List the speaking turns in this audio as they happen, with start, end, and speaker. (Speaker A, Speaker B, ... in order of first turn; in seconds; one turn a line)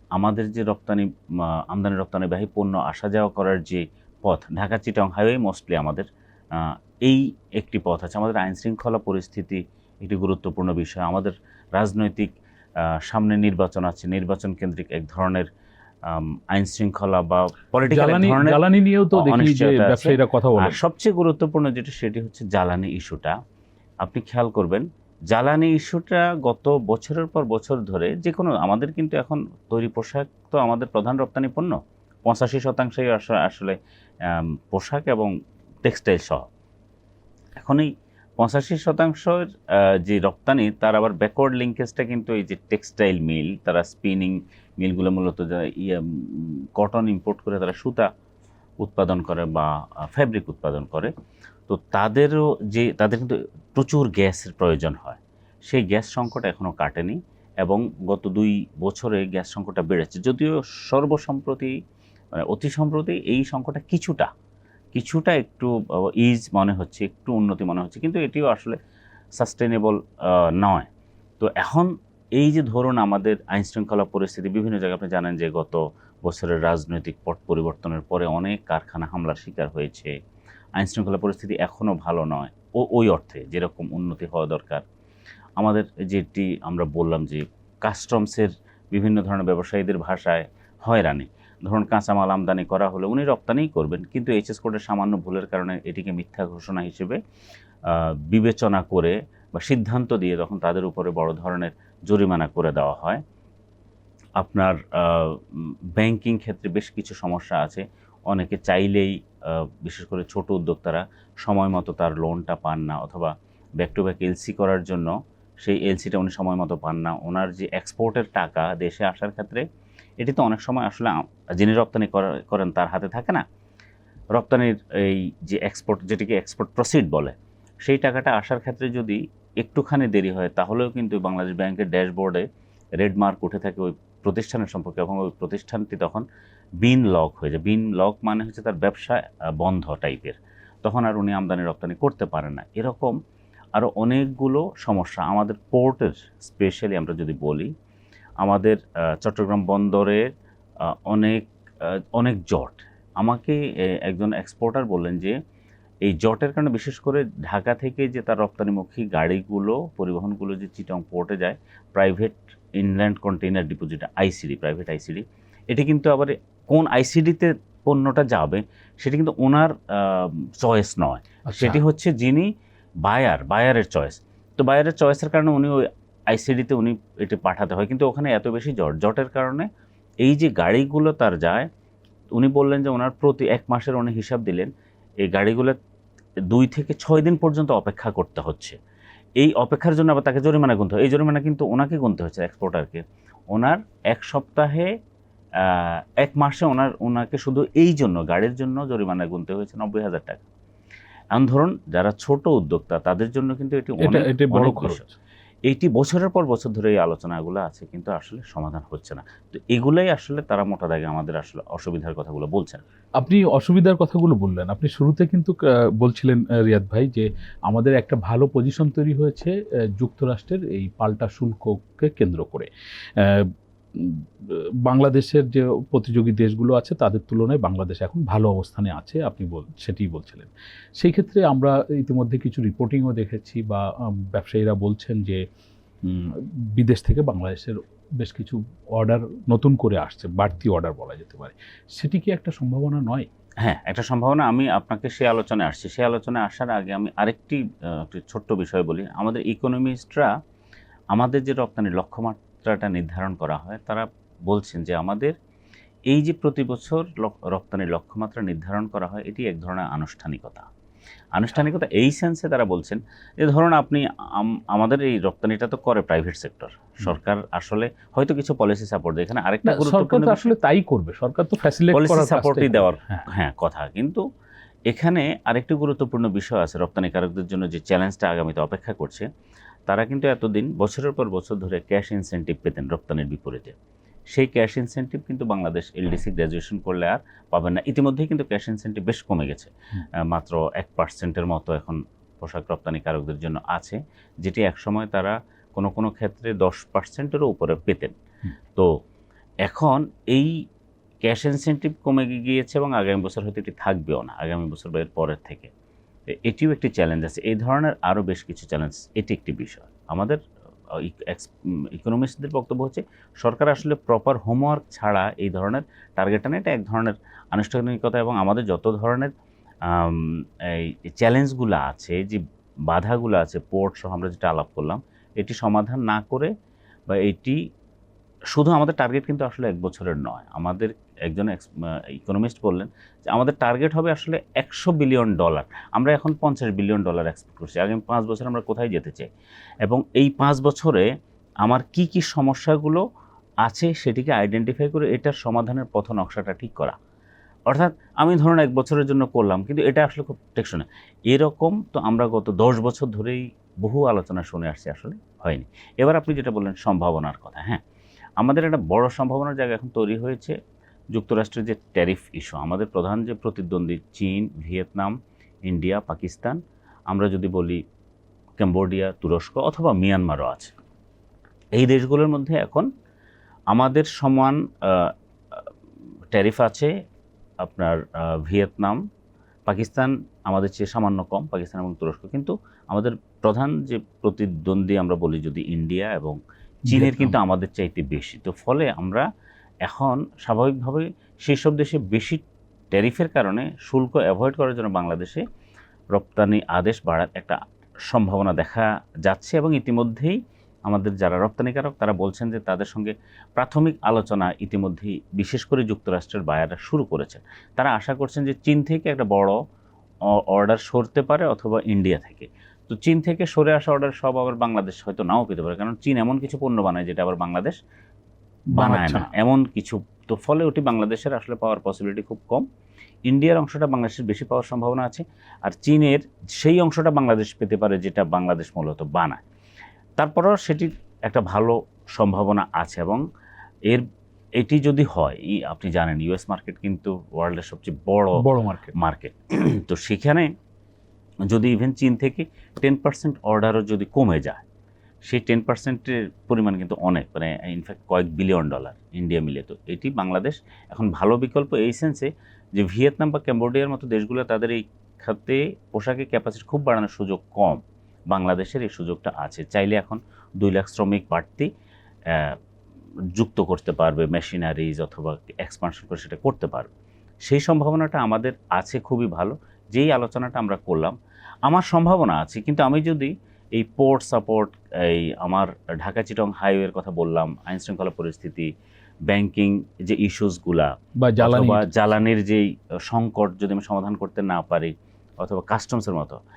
Speaker A: 0.1-12.3
Speaker A: 12.8-15.5
Speaker A: 16.1-23.3
Speaker B: 17.8-20.8
Speaker A: 24.0-35.3
Speaker A: 35.8-36.4
Speaker A: 37.6-48.1
Speaker A: 48.8-51.1
Speaker A: 51.7-61.7
Speaker A: 62.4-64.3
Speaker A: 64.9-68.8
Speaker A: 69.4-70.9
Speaker A: 71.4-80.1
Speaker A: 80.8-84.8
Speaker A: 85.6-97.2
Speaker A: 97.8-103.2
Speaker A: 104.4-119.6
Speaker A: 120.2-123.4
Speaker A: 124.3-132.5
Speaker A: 133.0-136.2
Speaker A: 136.8-143.1
Speaker A: 143.7-147.7
Speaker A: 148.4-150.2
Speaker A: 150.9-155.3
Speaker A: 156.1-172.5
Speaker B: 171.5-171.8
Speaker A: 173.0-179.7
Speaker A: 180.2-181.7
Speaker A: 182.3-184.7
Speaker A: 185.2-185.8
Speaker A: 186.5-188.8
Speaker A: 189.4-194.9
Speaker A: 195.6-200.4
Speaker A: 201.3-205.0
Speaker B: 204.0-205.2
Speaker A: 205.7-212.8
Speaker B: 213.2-235.4
Speaker B: 236.1-243.3
Speaker A: 243.6-250.3
Speaker A: 251.1-255.3
Speaker A: 256.1-260.6
Speaker A: 261.3-270.5
Speaker B: 269.6-273.2
Speaker A: 271.9-274.2
Speaker A: 274.9-279.3
Speaker A: 279.9-283.7
Speaker A: 284.3-289.7
Speaker A: 290.2-298.1
Speaker A: 299.6-300.5
Speaker A: 301.2-305.7
Speaker A: 306.3-310.4
Speaker A: 310.9-319.3
Speaker A: 319.9-326.5
Speaker A: 327.1-327.6
Speaker A: 328.5-339.3
Speaker A: 339.8-341.1
Speaker A: 341.6-343.0
Speaker A: 343.6-346.9
Speaker A: 347.7-357.8
Speaker A: 358.4-360.6
Speaker A: 361.1-367.8
Speaker A: 368.6-370.7
Speaker A: 371.8-372.9
Speaker A: 373.7-375.7
Speaker A: 376.3-376.9
Speaker A: 377.6-379.0
Speaker A: 379.6-389.2
Speaker B: 386.9-387.4
Speaker A: 389.8-395.4
Speaker A: 396.1-409.6
Speaker A: 410.3-417.8
Speaker B: 418.7-419.3
Speaker A: 418.8-422.6
Speaker A: 423.3-429.4
Speaker A: 430.2-433.2
Speaker A: 434.6-438.4
Speaker B: 438.4-438.9
Speaker A: 438.9-440.5
Speaker A: 441.5-444.6
Speaker A: 445.2-461.7
Speaker A: 462.3-462.6
Speaker A: 463.3-466.9
Speaker A: 467.4-471.1
Speaker A: 471.7-478.7
Speaker A: 479.3-480.9
Speaker B: 481.2-481.8
Speaker A: 481.4-486.4